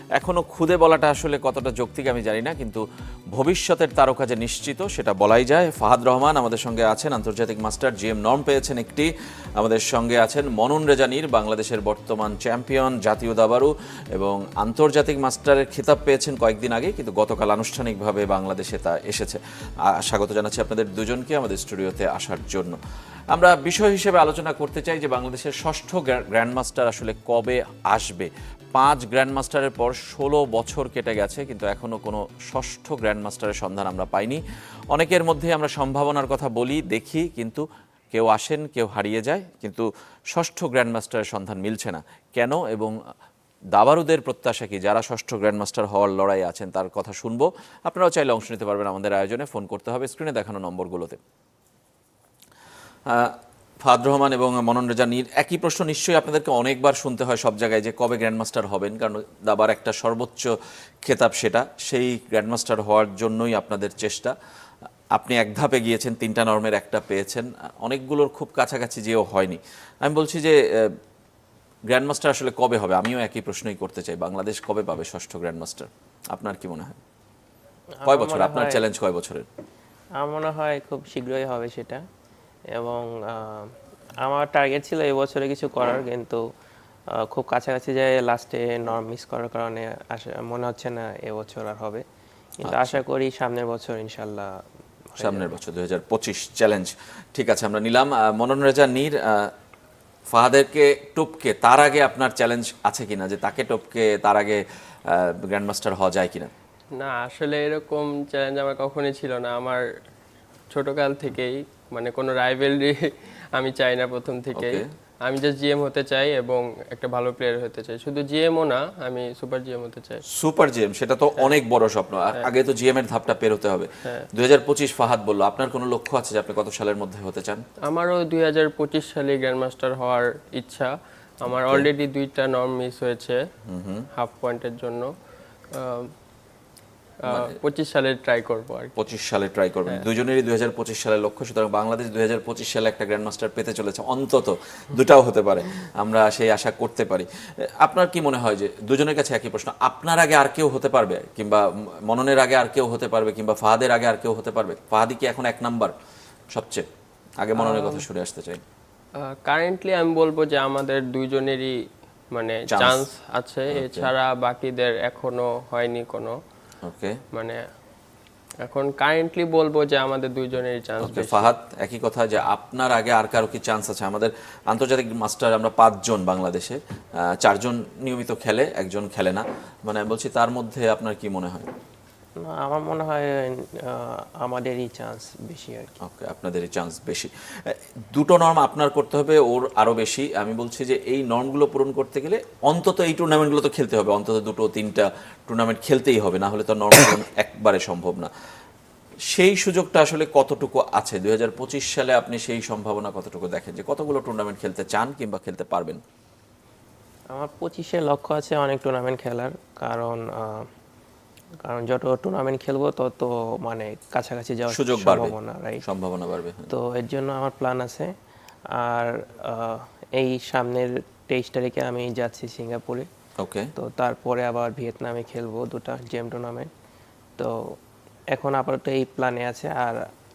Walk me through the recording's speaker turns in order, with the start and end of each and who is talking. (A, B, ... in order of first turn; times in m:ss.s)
0:00.2-0:22.8 A
0:23.3-0:34.4 A
0:34.9-0:42.9 A
0:43.7-0:51.2 A
0:53.1-1:00.5 A
1:01.0-1:04.3 A
1:05.1-1:11.0 A
1:11.9-1:17.0 A
1:18.0-1:18.8 B
1:18.0-1:19.5 A
1:20.2-1:22.0 B
1:22.7-1:26.4 B
1:27.2-1:32.0 B
1:32.6-1:34.6 B
1:32.6-1:33.0 A
1:35.1-1:35.5 B
1:35.2-1:39.5 A
1:40.3-1:46.5 A
1:47.0-1:49.8 C
1:50.7-2:00.2 C
1:54.5-1:54.8 A
2:00.3-2:07.6 A
2:07.9-2:13.4 C
2:11.5-2:11.9 A
2:13.6-2:14.1 A
2:14.1-2:15.1 C
2:15.7-2:16.1 C
2:17.2-2:19.0 C
2:17.3-2:17.6 A
2:19.0-2:35.9 A
2:36.5-2:36.9 A
2:37.4-2:38.6 A
2:37.6-2:38.0 C
2:39.2-2:41.8 C
2:42.3-2:46.4 C
2:42.7-2:43.0 A
2:43.7-2:44.1 A
2:46.8-2:47.2 A
2:47.3-2:47.6 C
2:48.6-2:51.5 C
2:51.0-3:01.7 A
3:02.5-3:05.9 B
3:06.0-3:18.3 A
3:19.3-3:26.0 A
3:27.3-3:30.6 B
3:31.6-3:35.8 B
3:34.7-3:36.7 A
3:36.7-3:38.1 B
3:38.8-3:43.1 B
3:43.4-3:43.7 A
3:43.8-3:46.7 B
3:48.3-3:50.0 B